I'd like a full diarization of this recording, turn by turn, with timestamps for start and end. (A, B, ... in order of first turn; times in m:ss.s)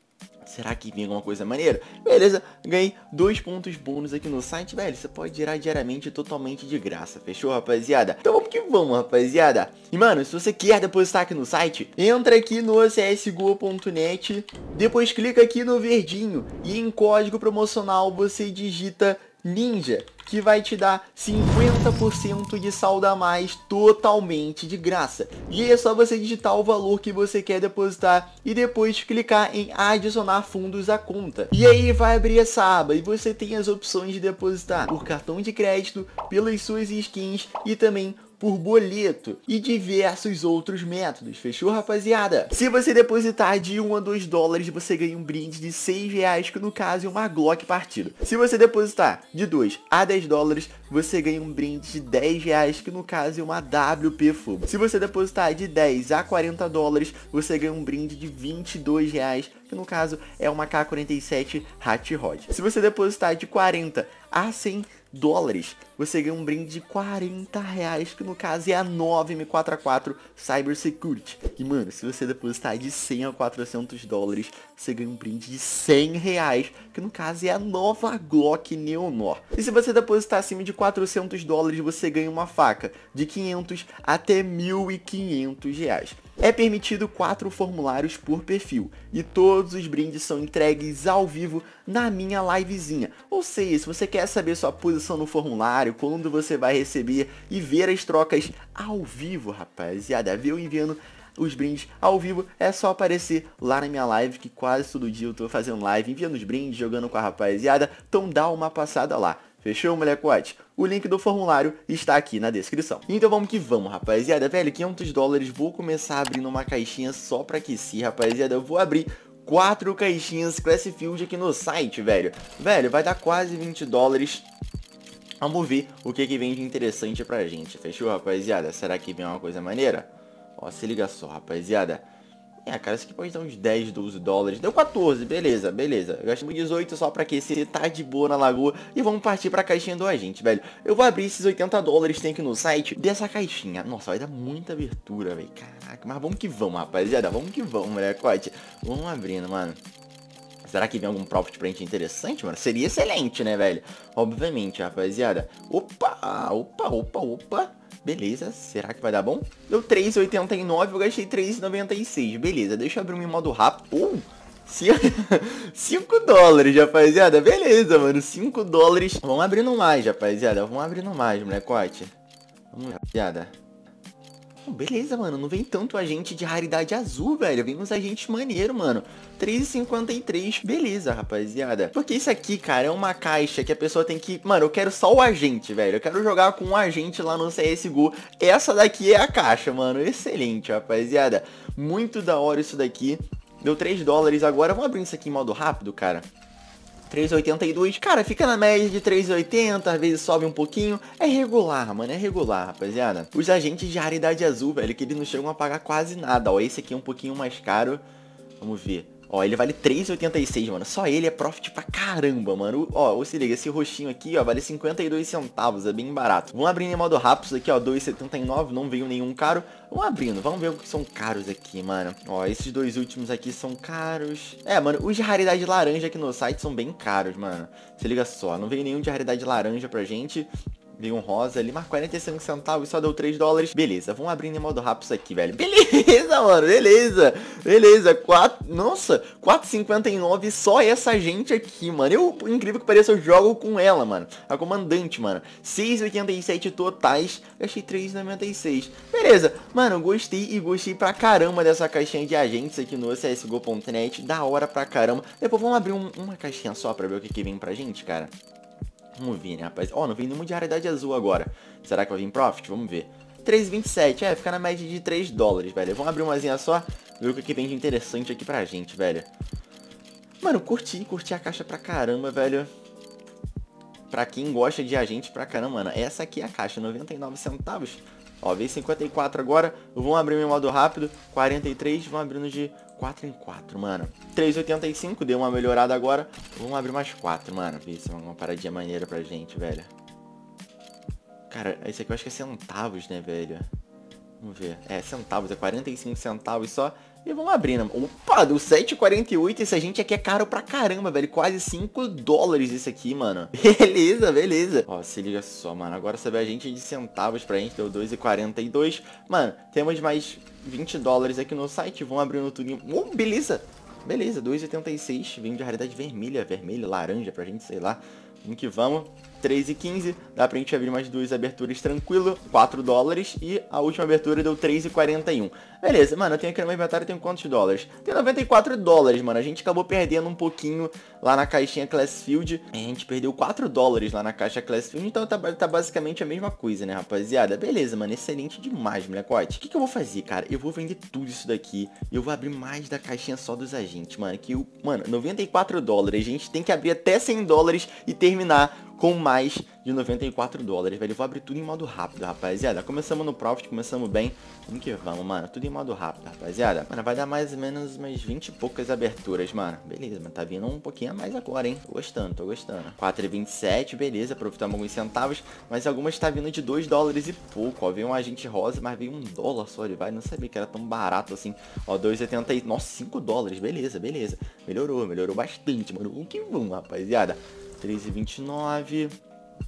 0:00.4-2:04.5 A
2:05.4-2:12.0 A
2:12.7-2:29.8 A
2:30.6-2:52.1 A
2:52.7-2:53.5 A
2:54.6-3:16.3 A
3:17.1-3:28.0 A
3:28.6-4:18.3 A
4:19.1-4:29.3 A
4:30.4-4:32.7 A
4:34.1-4:49.9 A
4:51.5-4:53.6 A
4:54.4-6:19.2 A